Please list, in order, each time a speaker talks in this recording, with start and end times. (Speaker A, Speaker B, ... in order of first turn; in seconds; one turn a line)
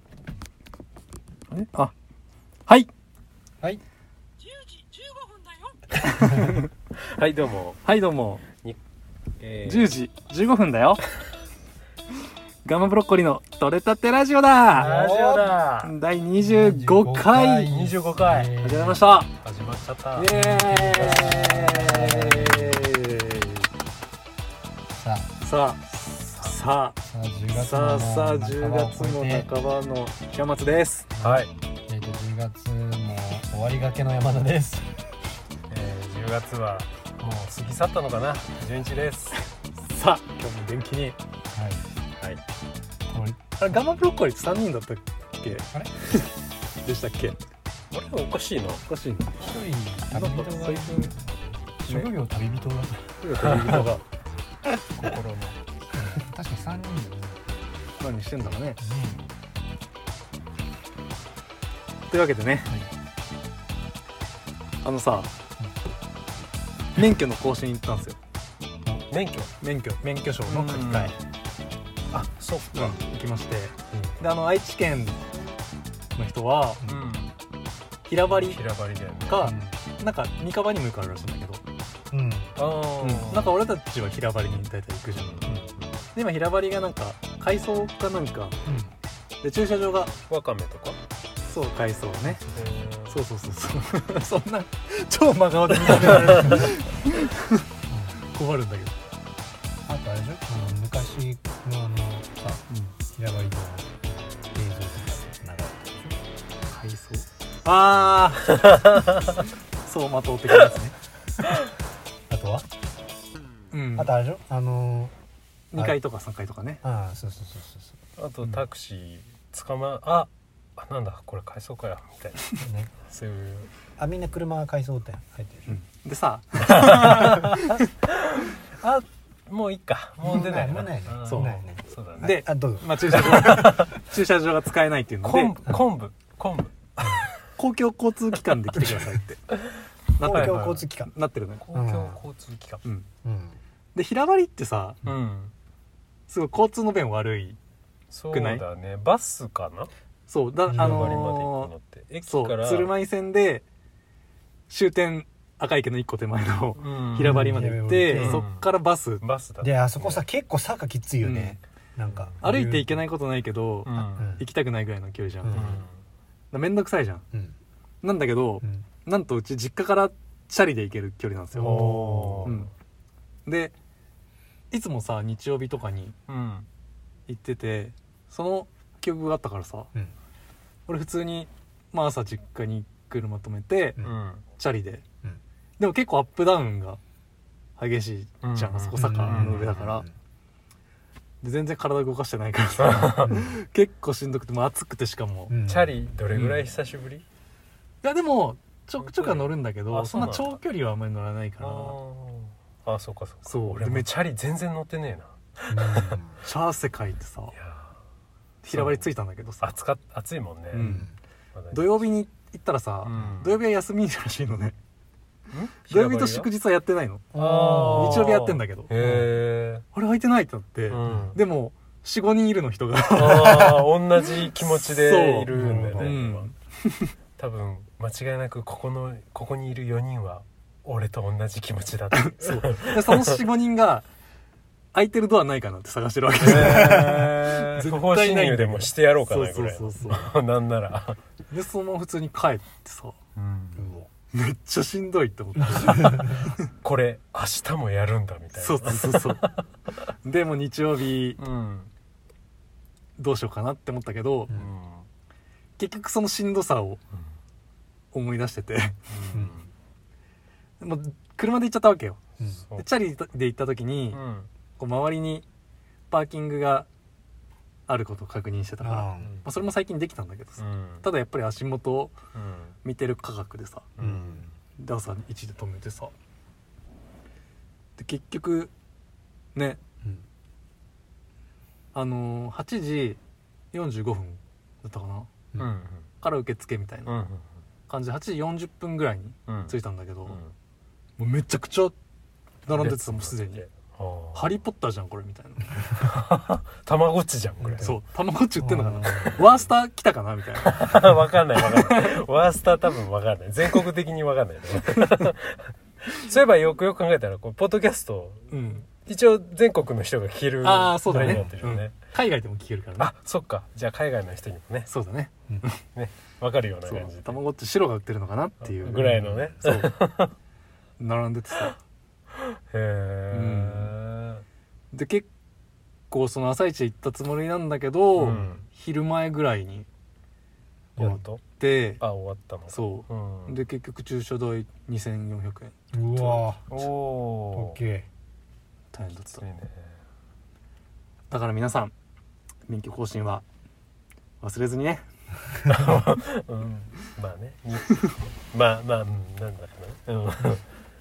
Speaker A: 1.5-1.9
Speaker B: 6.2-6.5
Speaker A: 6.3-6.6
Speaker C: 7.0-7.8
Speaker A: 7.8-8.4
Speaker C: 8.5-8.8
Speaker C: 9.4-9.9
Speaker A: 9.6-11.0
Speaker A: 12.6-15.0
Speaker B: 14.7-15.6
Speaker C: 14.8-15.9
Speaker A: 15.8-17.7
Speaker B: 16.4-19.0
Speaker C: 17.7-18.5
Speaker A: 18.6-19.3
Speaker C: 19.3-20.3
Speaker A: 20.1-23.7
Speaker B: 20.3-22.9
Speaker B: 24.9-25.4
Speaker A: 25.4-27.0
Speaker B: 27.0-29.5
Speaker A: 27.5-31.1
Speaker B: 31.1-35.0
Speaker C: 31.2-31.5
Speaker C: 35.7-39.5
Speaker A: 39.8-41.2
Speaker B: 41.5-41.9
Speaker B: 43.1-43.4
Speaker A: 43.6-46.3
Speaker A: 46.8-47.4
Speaker C: 47.9-48.8
Speaker A: 48.9-49.4
Speaker B: 49.4-53.1
Speaker A: 50.1-51.1
Speaker A: 53.2-54.0
Speaker C: 55.0-55.6
Speaker B: 55.9-57.4
Speaker A: 58.0-58.8
Speaker B: 58.8-59.2
Speaker A: 62.1-62.7
Speaker A: 64.8-65.3
Speaker A: 67.0-68.2
Speaker C: 69.1-69.5
Speaker A: 69.6-71.1
Speaker C: 70.5-71.1
Speaker C: 72.1-73.0
Speaker A: 72.7-75.2
Speaker A: 76.2-76.8
Speaker B: 76.8-77.1
Speaker C: 76.8-77.3
Speaker A: 78.0-78.6
Speaker C: 78.4-79.5
Speaker A: 79.3-81.6
Speaker B: 79.4-79.8
Speaker B: 82.1-82.6
Speaker C: 82.5-83.5
Speaker A: 83.0-85.5
Speaker C: 85.2-85.9
Speaker B: 85.5-85.7
Speaker A: 86.1-88.6
Speaker B: 88.7-88.9
Speaker A: 89.4-90.1
Speaker C: 90.3-91.0
Speaker A: 91.5-92.4
Speaker B: 92.2-92.7
Speaker C: 92.5-93.2
Speaker A: 93.1-97.6
Speaker B: 96.0-96.7
Speaker B: 97.9-98.2
Speaker A: 98.3-99.0
Speaker B: 99.8-106.2
Speaker A: 102.7-103.0
Speaker A: 106.7-108.7
Speaker C: 108.8-109.3
Speaker A: 109.8-110.9
Speaker B: 112.3-112.7
Speaker A: 113.7-114.1
Speaker B: 113.9-115.1
Speaker A: 115.7-116.8
Speaker B: 116.8-118.0
Speaker C: 118.2-122.5
Speaker B: 122.6-122.9
Speaker C: 123.1-123.7
Speaker B: 124.0-125.8
Speaker A: 125.7-127.8
Speaker C: 126.7-127.5
Speaker C: 128.3-132.3
Speaker B: 130.2-133.9
Speaker A: 131.2-131.6
Speaker A: 132.2-135.5
Speaker C: 135.2-137.1
Speaker A: 137.6-139.5
Speaker B: 138.8-139.1
Speaker A: 140.2-141.6
Speaker B: 140.2-141.1
Speaker C: 140.3-140.8
Speaker C: 141.6-142.8
Speaker B: 141.7-142.2
Speaker B: 143.2-143.6
Speaker A: 143.9-145.1
Speaker C: 145.0-145.5
Speaker A: 146.3-147.6
Speaker C: 148.1-149.9
Speaker A: 148.3-148.6
Speaker A: 150.3-151.7
Speaker B: 150.7-151.4
Speaker C: 150.7-152.9
Speaker A: 152.2-153.6
Speaker A: 154.7-159.2
Speaker C: 156.8-157.4
Speaker B: 157.2-158.4
Speaker C: 158.1-158.7
Speaker C: 159.2-160.2
Speaker B: 159.6-163.1
Speaker A: 161.2-161.6
Speaker C: 162.1-162.4
Speaker A: 162.4-165.9
Speaker C: 163.9-164.3
Speaker B: 163.9-164.4
Speaker B: 165.4-165.8
Speaker C: 165.5-166.0
Speaker A: 166.5-167.2
Speaker A: 168.0-172.7
Speaker B: 171.5-172.7
Speaker C: 171.6-172.6
Speaker A: 173.4-173.7
Speaker A: 174.7-176.2
Speaker C: 176.3-176.7
Speaker A: 177.3-179.9
Speaker A: 180.9-184.0
Speaker C: 184.0-184.4
Speaker A: 184.5-185.0
Speaker A: 185.8-187.0
Speaker A: 187.8-190.1
Speaker C: 188.4-189.7
Speaker B: 188.9-190.1
Speaker A: 191.4-195.6
Speaker C: 192.8-193.3
Speaker B: 193.2-193.6
Speaker B: 195.5-196.0
Speaker C: 195.7-197.2
Speaker A: 196.3-196.7
Speaker A: 198.0-202.0
Speaker C: 199.0-200.6
Speaker C: 201.6-206.1
Speaker A: 203.4-204.1
Speaker B: 205.7-206.4
Speaker A: 206.4-207.6
Speaker C: 207.5-207.9
Speaker A: 208.6-209.8
Speaker C: 208.7-209.0
Speaker C: 209.6-210.8
Speaker A: 210.7-211.1
Speaker B: 210.8-211.1
Speaker C: 211.5-212.1
Speaker A: 211.7-214.7
Speaker C: 213.0-213.6
Speaker C: 215.5-216.5
Speaker A: 215.8-217.3
Speaker B: 217.3-218.3
Speaker C: 217.3-219.8
Speaker A: 217.8-218.9
Speaker B: 219.0-219.3
Speaker A: 219.9-226.5
Speaker C: 220.9-221.4
Speaker B: 221.1-221.3
Speaker C: 223.2-226.5
Speaker B: 225.5-226.2
Speaker C: 227.4-233.4
Speaker A: 232.1-234.0
Speaker A: 234.9-240.3
Speaker C: 236.4-241.2
Speaker B: 236.7-237.0
Speaker A: 241.5-243.2
Speaker C: 243.3-243.8
Speaker B: 243.8-244.1
Speaker A: 244.3-246.6
Speaker B: 245.6-246.5
Speaker C: 246.8-249.6
Speaker A: 248.6-249.5
Speaker A: 250.2-251.4
Speaker C: 251.4-251.9
Speaker A: 253.2-254.5
Speaker C: 254.5-255.1
Speaker A: 255.8-257.0
Speaker A: 258.1-259.0
Speaker C: 259.1-259.6
Speaker A: 260.8-262.2
Speaker B: 262.4-262.6
Speaker A: 262.8-264.2
Speaker C: 264.1-264.5
Speaker A: 264.8-265.4
Speaker A: 266.1-266.9
Speaker A: 267.9-272.2
Speaker B: 268.8-269.4
Speaker C: 270.6-271.1
Speaker C: 272.3-272.7
Speaker A: 272.8-273.9
Speaker C: 273.9-274.5
Speaker B: 274.0-274.5
Speaker A: 274.8-276.1
Speaker A: 278.0-278.7
Speaker A: 279.5-279.8
Speaker A: 281.9-283.2
Speaker A: 283.7-285.3
Speaker C: 285.6-286.1
Speaker A: 286.2-287.1
Speaker C: 287.1-287.5
Speaker A: 287.9-290.4
Speaker C: 289.5-289.8
Speaker A: 291.2-291.9
Speaker A: 292.6-293.6
Speaker C: 292.7-294.5
Speaker A: 294.3-295.8
Speaker C: 296.0-297.9
Speaker B: 297.6-298.0
Speaker A: 297.8-300.8
Speaker B: 298.6-299.5
Speaker C: 300.6-312.1
Speaker A: 301.6-302.2
Speaker A: 305.0-305.3
Speaker A: 308.5-308.8
Speaker A: 310.6-313.1
Speaker B: 311.1-311.6
Speaker C: 313.0-314.9
Speaker A: 314.9-315.8
Speaker C: 315.9-317.4
Speaker A: 316.8-319.9
Speaker C: 318.8-320.3
Speaker B: 318.9-319.5
Speaker A: 321.0-321.8
Speaker C: 322.7-324.4
Speaker A: 323.3-323.9
Speaker A: 324.9-325.3
Speaker A: 326.1-329.9
Speaker C: 328.2-328.6
Speaker C: 330.9-331.4
Speaker B: 331.0-331.2
Speaker A: 331.6-332.0
Speaker C: 332.0-333.6
Speaker A: 332.7-335.7
Speaker B: 335.9-336.9
Speaker C: 336.7-337.8
Speaker B: 337.5-338.1
Speaker A: 338.9-339.5
Speaker C: 339.1-339.9
Speaker A: 341.3-341.9
Speaker A: 342.7-343.4
Speaker A: 344.4-345.1
Speaker C: 345.7-350.6